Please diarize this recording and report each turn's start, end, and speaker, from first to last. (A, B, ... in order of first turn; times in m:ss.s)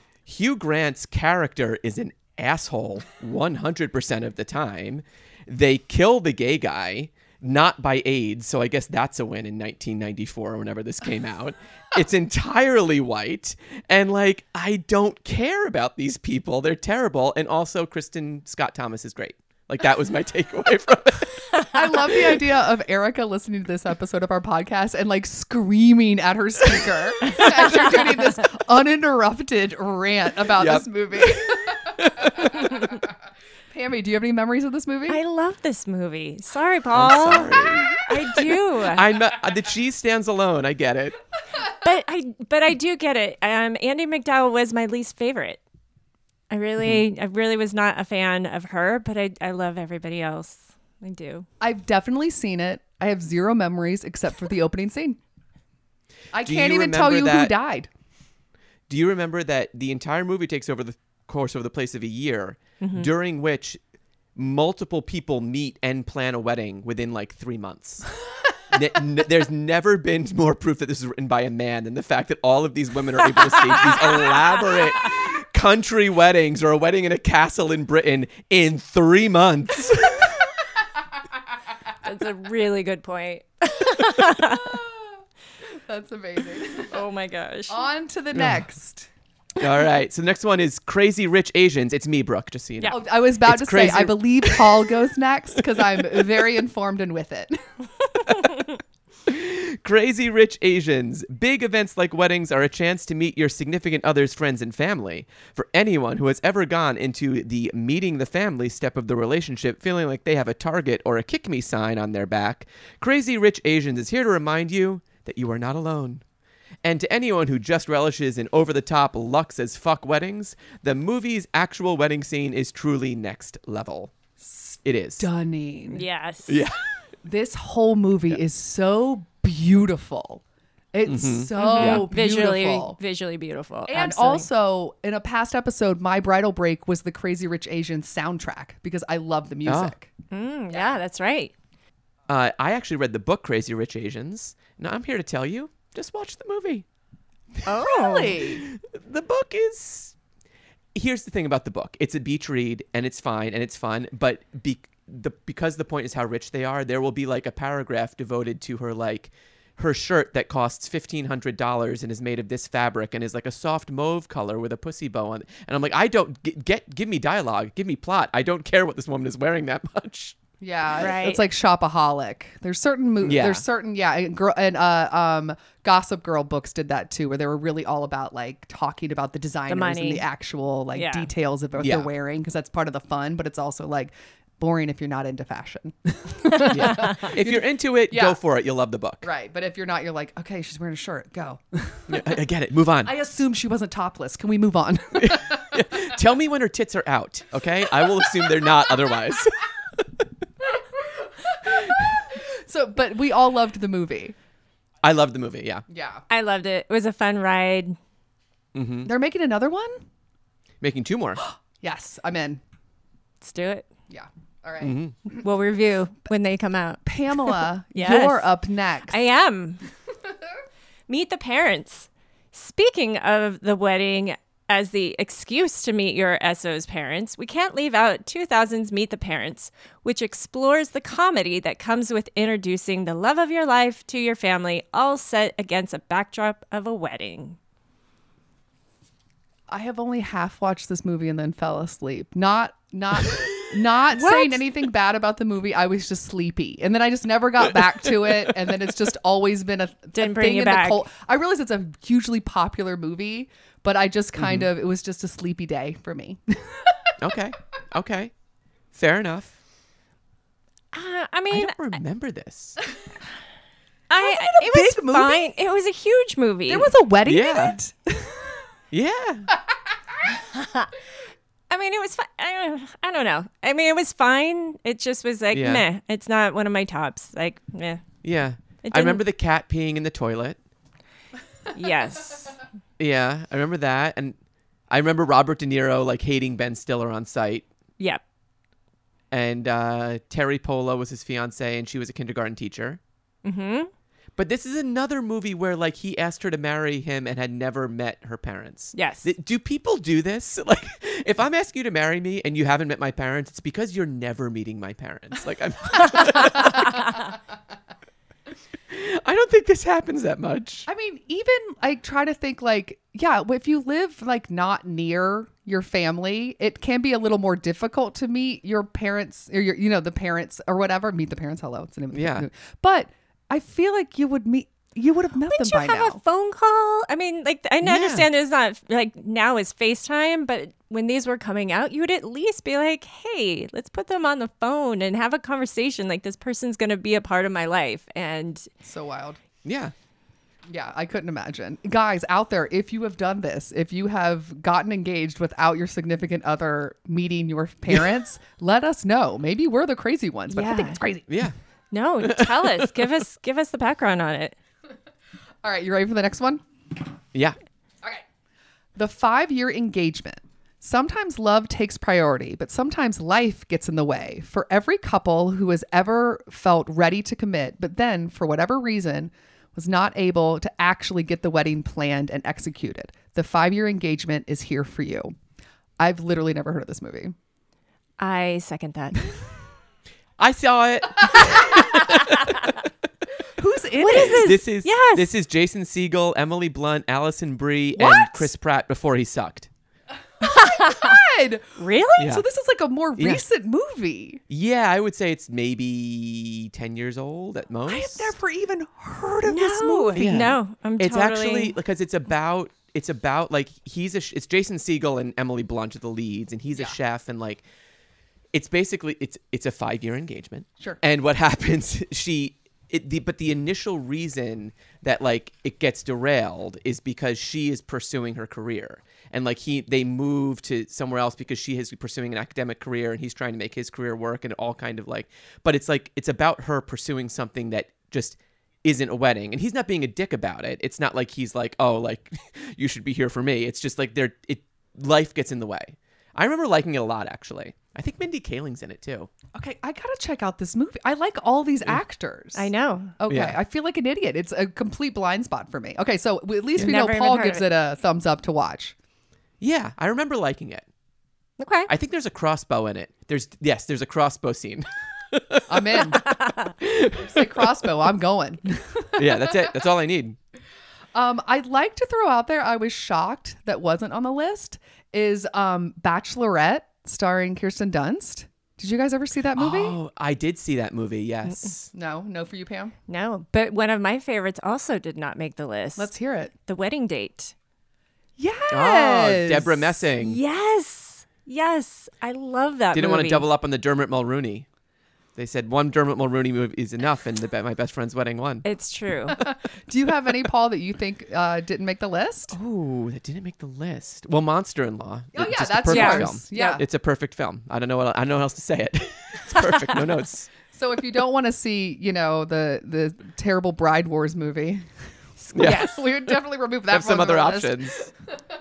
0:00.3-0:21.4 A
0:21.7-0:33.0 B
0:30.6-0:32.7 A
0:33.7-0:35.2 B
0:35.1-0:39.1 C
0:36.9-0:41.2 A
0:41.7-0:45.6 C
0:46.5-0:51.5 C
0:51.6-0:55.2 B
0:56.3-0:57.9 B
0:56.4-0:57.5 A
0:58.9-1:03.8 A
1:02.8-1:03.1 C
1:04.4-1:08.1 A
1:08.7-1:20.5 A
1:22.0-1:24.8 C
1:24.2-1:25.0 B
1:25.7-1:27.0 B
1:26.9-1:27.8 C
1:27.7-1:29.1 B
1:28.3-1:28.6 A
1:29.6-1:34.9 A
1:32.9-1:37.6 B
1:35.8-1:36.2 A
1:39.3-1:56.2 A
1:56.8-2:04.1 A
2:04.4-2:06.0 B
2:04.8-2:05.3 A
2:05.9-2:06.6 C
2:06.5-2:06.8 A
2:07.2-2:13.0 B
2:11.1-2:12.1 A
2:11.6-2:14.5 C
2:13.9-2:20.1 B
2:19.6-2:20.0 A
2:20.3-2:21.5 C
2:22.3-2:26.8 A
2:27.7-2:28.4 C
2:27.7-2:28.7 B
2:28.5-2:30.2 A
2:30.9-2:50.4 A
2:50.6-3:08.4 B
2:51.0-2:51.4 C
2:53.2-2:53.6 A
2:59.7-3:00.2 C
3:01.0-3:01.3 C
3:01.8-3:02.1 A
3:06.7-3:09.3 A
3:09.2-3:12.2 B
3:12.1-3:13.1 A
3:13.0-3:15.8 B
3:15.2-3:20.3 A
3:20.8-3:24.4 B
3:21.7-3:22.1 A
3:25.0-3:25.8 A
3:25.9-3:26.2 B
3:26.3-3:28.0 C
3:28.7-3:29.1 A
3:29.0-3:30.0 B
3:30.8-3:31.4 A
3:31.4-3:32.6 B
3:33.4-3:33.9 C
3:34.1-3:35.4 B
3:34.8-3:35.2 A
3:35.4-3:38.5 C
3:37.0-3:39.2 B
3:39.1-3:39.8 C
3:41.1-3:57.6 C
3:59.7-4:17.2 B
4:04.1-4:04.6 C
4:08.2-4:08.5 A
4:10.2-4:11.0 C
4:14.4-4:14.7 A
4:17.2-4:18.3 A
4:18.9-4:19.6 A
4:20.9-4:22.0 C
4:21.5-4:22.8 A
4:24.1-4:26.9 C
4:24.2-4:25.5 B
4:26.7-4:28.6 B
4:27.3-4:27.8 A
4:28.9-4:29.5 A
4:30.3-4:30.9 C
4:31.7-4:38.0 C
4:35.5-4:35.8 A
4:38.2-4:40.6 A
4:38.8-4:39.2 C
4:41.7-4:42.6 C
4:43.0-4:44.4 A
4:44.9-4:47.7 A
4:49.3-4:53.0 A
4:53.4-4:53.9 C
4:54.4-5:07.2 A
4:59.0-4:59.3 C
5:06.2-5:06.7 C
5:08.9-5:10.9 A
5:10.9-5:26.2 B
5:22.1-5:22.5 A
5:25.5-5:38.7 C
5:27.8-5:28.3 A
5:38.8-5:39.4 B
5:39.6-5:39.9 A
5:40.7-5:51.3 B
5:50.5-5:51.0 C
5:51.3-5:51.5 A
5:51.9-5:54.6 C
5:52.2-5:53.1 A
5:55.6-5:56.6 B
5:59.0-6:15.3 B
6:16.0-6:17.4 B
6:18.2-6:19.3 C
6:20.4-6:22.8 A
6:23.6-6:24.5 B
6:24.0-6:25.3 C
6:24.1-6:29.7 A
6:28.1-6:28.4 B
6:30.4-6:34.4 B
6:30.4-6:31.2 C
6:31.8-6:32.4 C
6:32.2-6:32.4 A
6:33.2-6:33.4 A
6:34.5-6:38.3 A
6:37.9-6:40.5 B
6:39.5-6:41.8 C
6:40.2-6:47.6 A
6:48.5-7:19.3 A
7:19.6-7:29.0 B
7:22.6-7:23.2 C
7:23.3-7:23.6 A
7:26.8-7:27.6 C
7:29.6-7:30.9 A
7:31.6-7:31.9 C
7:31.9-7:36.2 A
7:35.7-7:36.3 B
7:36.3-7:36.7 C
7:36.8-7:37.7 A
7:37.1-7:39.7 B
7:39.2-7:40.4 A
7:41.2-7:50.0 B
7:49.6-7:51.9 A
7:51.9-7:53.0 B
7:53.1-7:56.1 C
7:56.0-7:56.5 B
7:56.7-7:57.5 C
7:58.4-8:00.1 B
7:58.7-8:00.4 A
8:00.2-8:03.5 C
8:02.9-8:04.7 A
8:05.4-8:08.6 A
8:08.6-8:09.4 C
8:09.3-8:12.6 B
8:12.5-8:20.5 A
8:15.3-8:16.8 B
8:15.9-8:16.8 C
8:20.7-8:28.3 B
8:25.5-8:26.3 A
8:25.6-8:26.0 C
8:26.9-8:28.0 A